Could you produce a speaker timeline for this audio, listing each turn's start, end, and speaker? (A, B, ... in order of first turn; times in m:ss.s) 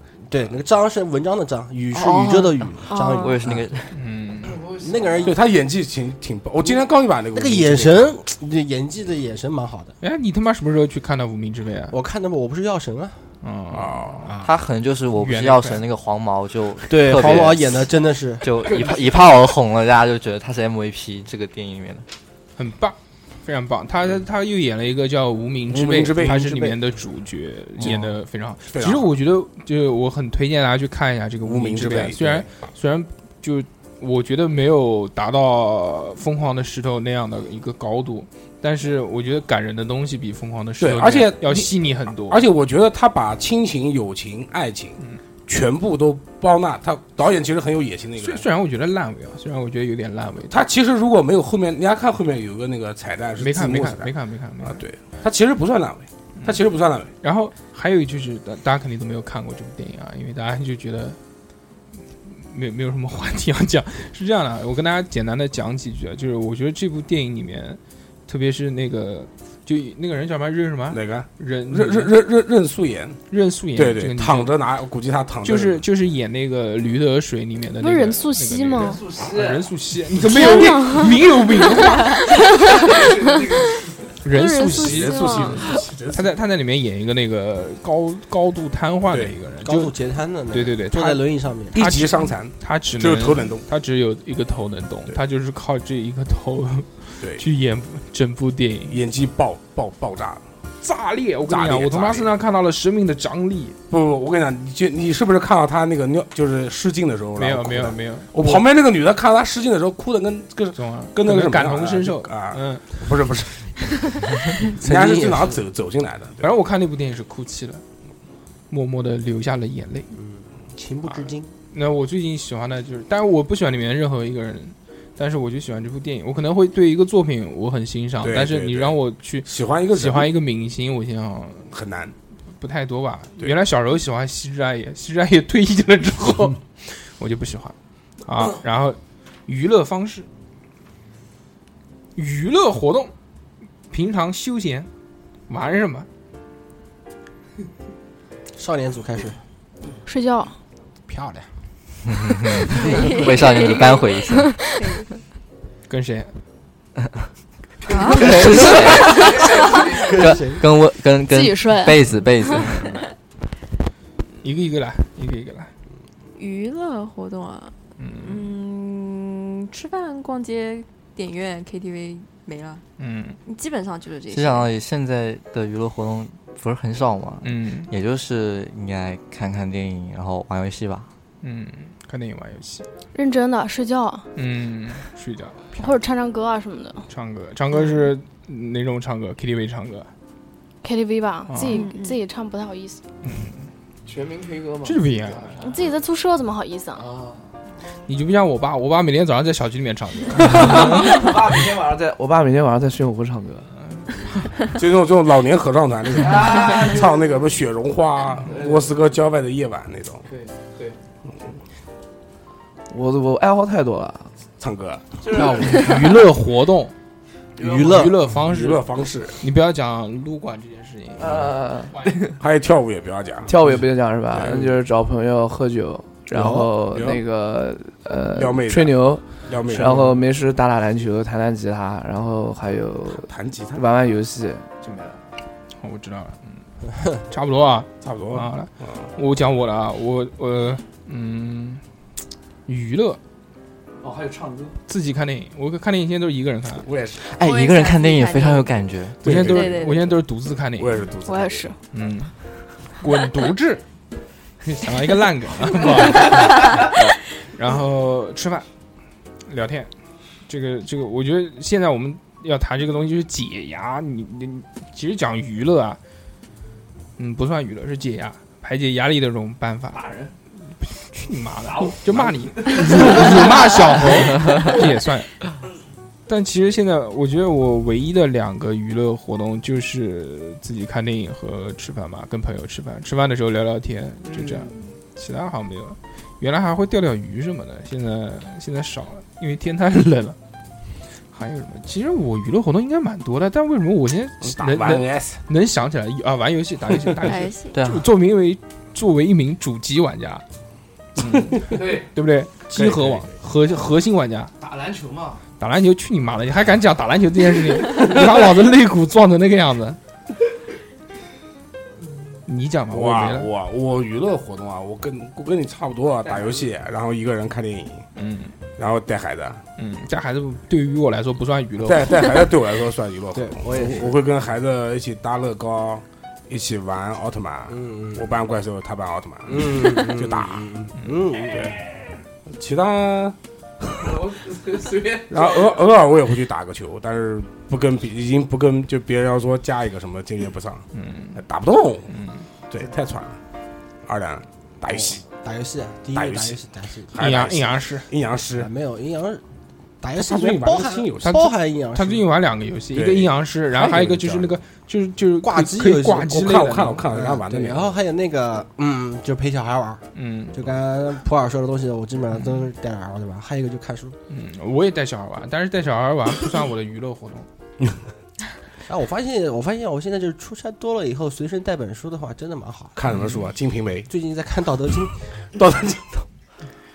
0:00.3-0:03.6 A
0:02.0-0:03.9 B
0:02.9-0:03.3 C
0:03.9-0:04.6 D
0:04.4-0:05.4 E
0:04.8-0:05.4 A
0:05.2-0:08.2 F
0:07.3-0:09.9 A
0:10.0-0:12.0 D
0:11.9-0:13.2 A
0:13.4-0:14.3 D
0:13.7-0:14.3 F
0:14.4-0:17.9 B
0:15.2-0:15.8 D
0:16.9-0:18.6 A
0:18.4-0:22.1 B
0:22.6-0:42.4 D
0:25.7-0:26.6 F
0:26.2-0:26.8 A
0:27.8-0:28.1 F
0:28.6-0:29.1 F
0:31.4-0:32.5 F
0:40.8-0:48.4 F
0:48.2-0:50.6 D
0:50.5-0:57.1 F
0:53.4-0:54.8 D
0:57.2-1:01.2 D
1:02.2-1:12.1 D
1:10.9-1:13.2 F
1:13.3-1:14.6 D
1:13.7-1:15.8 F
1:15.4-1:22.4 D
1:17.8-1:19.1 C
1:18.8-1:19.7 E
1:20.2-1:23.2 C
1:22.9-1:23.8 E
1:24.2-1:29.9 D
1:24.3-1:25.7 C
1:24.7-1:26.4 F
1:29.1-1:29.4 F
1:29.6-1:31.8 A
1:30.5-1:39.0 D
1:31.7-1:33.6 F
1:38.9-1:40.4 F
1:40.8-1:43.8 D
1:41.4-1:42.3 F
1:43.9-1:53.6 F
1:47.4-1:48.6 D
1:50.8-1:53.0 D
1:54.8-1:56.6 F
1:54.8-1:55.6 A
1:56.4-1:57.8 D
1:58.7-2:00.1 D
2:00.1-2:01.5 A
2:01.1-2:11.7 D
2:08.2-2:10.3 F
2:11.7-2:12.1 F
2:12.6-2:20.3 D
2:22.2-2:23.1 D
2:23.9-2:24.9 D
2:25.5-2:26.1 D
2:28.6-2:29.4 A
2:30.1-2:30.5 C
2:31.1-2:31.5 A
2:32.1-2:34.5 B
2:32.7-2:35.1 G
2:33.7-2:35.0 C
2:35.9-2:36.3 D
2:37.9-2:39.8 G
2:38.1-2:43.0 B
2:38.2-2:38.6 E
2:39.5-2:40.0 C
2:40.0-2:40.6 A
2:41.3-2:42.6 C
2:44.4-2:45.7 D
2:46.4-2:52.8 G
2:48.0-2:48.5 D
2:53.0-2:53.4 D
2:53.4-2:54.7 G
2:54.3-3:01.1 B
2:57.4-2:57.9 D
3:01.4-3:02.9 D
3:03.1-3:04.3 C
3:04.4-3:05.9 D
3:05.8-3:07.1 C
3:07.1-3:10.1 D
3:10.8-3:13.0 C
3:11.5-3:11.8 D
3:11.6-3:12.2 G
3:13.2-3:13.6 D
3:14.1-3:16.0 E
3:14.8-3:15.6 D
3:15.6-3:17.0 C
3:17.0-3:17.5 E
3:18.1-3:21.3 D
3:20.4-3:23.7 E
3:24.0-3:24.6 D
3:24.7-3:30.2 F
3:26.2-3:27.4 E
3:28.5-3:29.0 E
3:30.3-3:31.0 E
3:32.9-3:34.3 E
3:34.6-3:35.1 F
3:35.2-3:36.1 E
3:35.3-3:35.9 A
3:35.6-3:36.9 D
3:37.6-3:38.2 A
3:37.6-3:38.0 E
3:37.7-3:38.9 D
3:38.3-3:39.4 F
3:39.4-3:41.5 D
3:41.2-3:42.4 E
3:42.4-3:44.8 F
3:43.4-3:55.2 E
3:46.4-3:47.2 F
3:48.3-3:50.2 F
3:53.2-3:53.8 F
3:55.8-3:56.6 D
3:57.3-4:01.8 D
3:58.0-3:59.1 F
4:02.7-4:03.2 D
4:04.0-4:04.8 E
4:04.9-4:06.9 D
4:06.8-4:07.2 F
4:07.2-4:09.3 B
4:07.4-4:10.1 G
4:09.2-4:10.1 F
4:09.2-4:11.0 D
4:10.8-4:11.7 F
4:11.2-4:11.8 C
4:11.9-4:12.3 D
4:13.0-4:13.8 D
4:14.6-4:18.7 D
4:19.5-4:19.9 D
4:20.5-4:26.0 D
4:27.2-4:30.0 D
4:29.9-4:30.3 E
4:30.8-4:35.5 D
4:31.6-4:34.8 E
4:36.3-4:50.4 D
4:44.2-4:44.9 E
4:51.3-5:00.4 D
4:54.4-4:55.4 F
4:57.2-4:57.8 G
4:57.7-4:58.1 B
5:01.2-5:04.5 D
5:01.7-5:02.1 E
5:02.7-5:03.4 F
5:04.6-5:05.4 E
5:05.6-5:10.0 D
5:12.5-5:13.5 D
5:12.9-5:18.0 F
5:16.2-5:16.6 E
5:18.2-5:18.5 D
5:18.8-5:19.6 F
5:19.8-5:22.3 D
5:21.8-5:30.7 F
5:23.3-5:24.1 A
5:27.7-5:28.2 A
5:29.5-5:31.8 A
5:32.5-5:34.1 F
5:34.0-5:35.9 E
5:35.3-5:42.1 F
5:40.9-5:41.4 D
5:42.1-5:42.4 D
5:42.7-5:43.4 F
5:44.1-5:45.2 F
5:44.9-5:47.2 A
5:46.1-5:46.6 F
5:47.1-5:48.7 F
5:47.2-5:48.1 D
5:48.6-5:49.4 A
5:50.0-5:52.3 A
5:50.2-5:51.4 F
5:51.2-5:57.1 D
5:52.9-5:54.6 F
5:55.4-5:56.3 A
5:56.3-5:58.0 F
5:57.1-6:00.0 A
6:00.1-6:00.6 D
6:00.5-6:04.2 A
6:02.3-6:02.7 D
6:04.3-6:07.5 D
6:08.9-6:13.0 A
6:13.0-6:14.1 F
6:13.1-6:13.5 D
6:14.1-6:15.1 A
6:15.5-6:16.2 F